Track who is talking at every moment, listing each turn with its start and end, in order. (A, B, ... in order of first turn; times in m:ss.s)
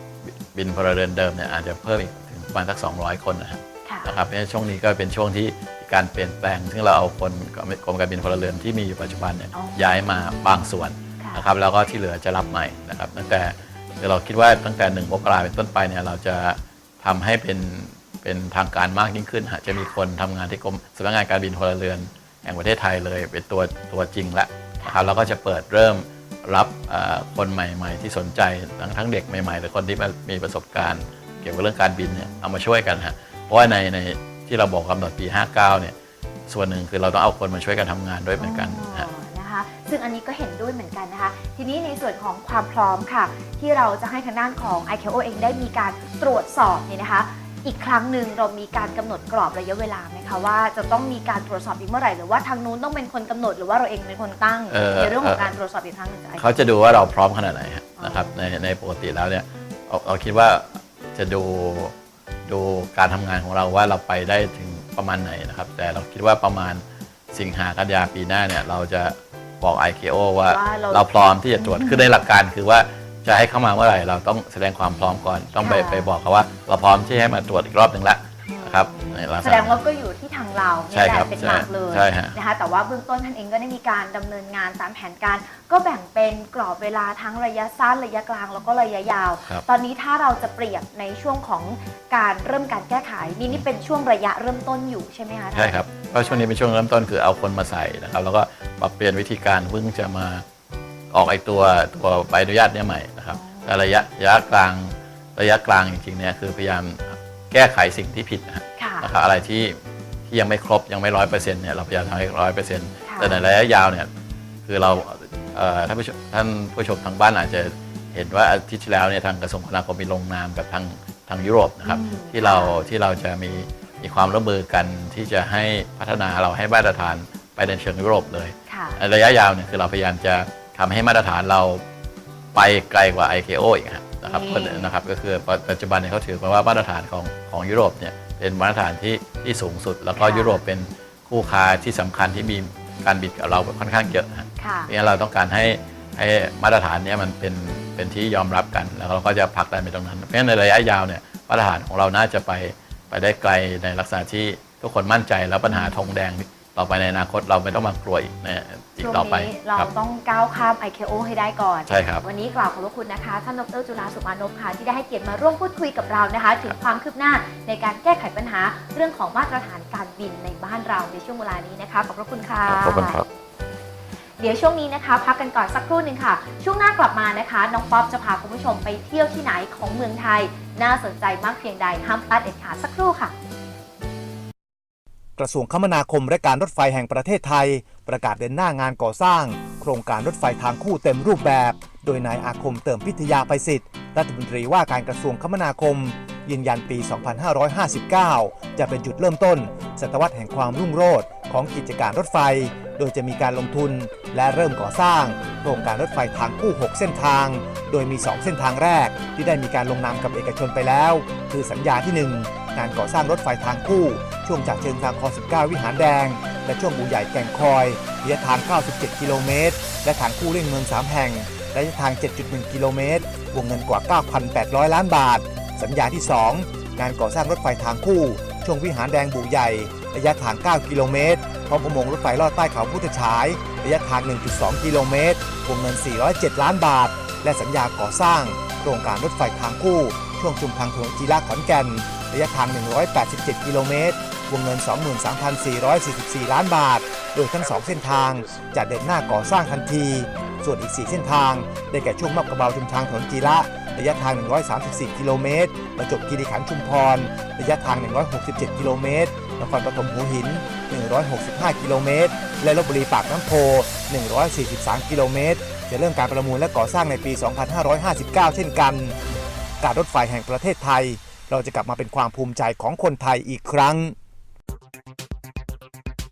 0:00.3-0:35.9 A
0:03.8-0:04.1 B
0:09.5-0:10.3 B
0:11.2-0:11.5 B
0:19.7-0:20.0 B
0:32.1-0:32.4 B
0:36.5-0:39.1 A
0:38.4-0:56.5 B
0:54.7-0:55.5 A
0:56.4-1:01.9 A
0:58.0-0:58.4 B
1:02.4-1:19.8 A
1:10.5-1:12.1 B
1:15.6-1:16.1 B
1:18.5-1:36.4 B
1:20.9-1:22.4 A
1:35.5-1:40.4 A
1:41.1-1:49.8 A
1:43.3-1:43.8 B
1:48.8-1:49.1 B
1:50.3-1:54.1 A
1:53.0-1:53.4 B
1:54.6-2:11.8 A
2:01.8-2:02.8 B
2:08.7-2:09.0 B
2:12.5-2:39.9 A
2:14.2-2:14.9 B
2:20.2-2:20.6 B
2:24.6-2:24.9 B
2:35.6-2:36.0 B
2:39.0-2:53.2 B
2:41.9-2:42.2 A
2:52.6-2:53.2 A
2:54.4-3:03.3 B
3:05.4-4:29.2 C
4:29.8-4:34.2 C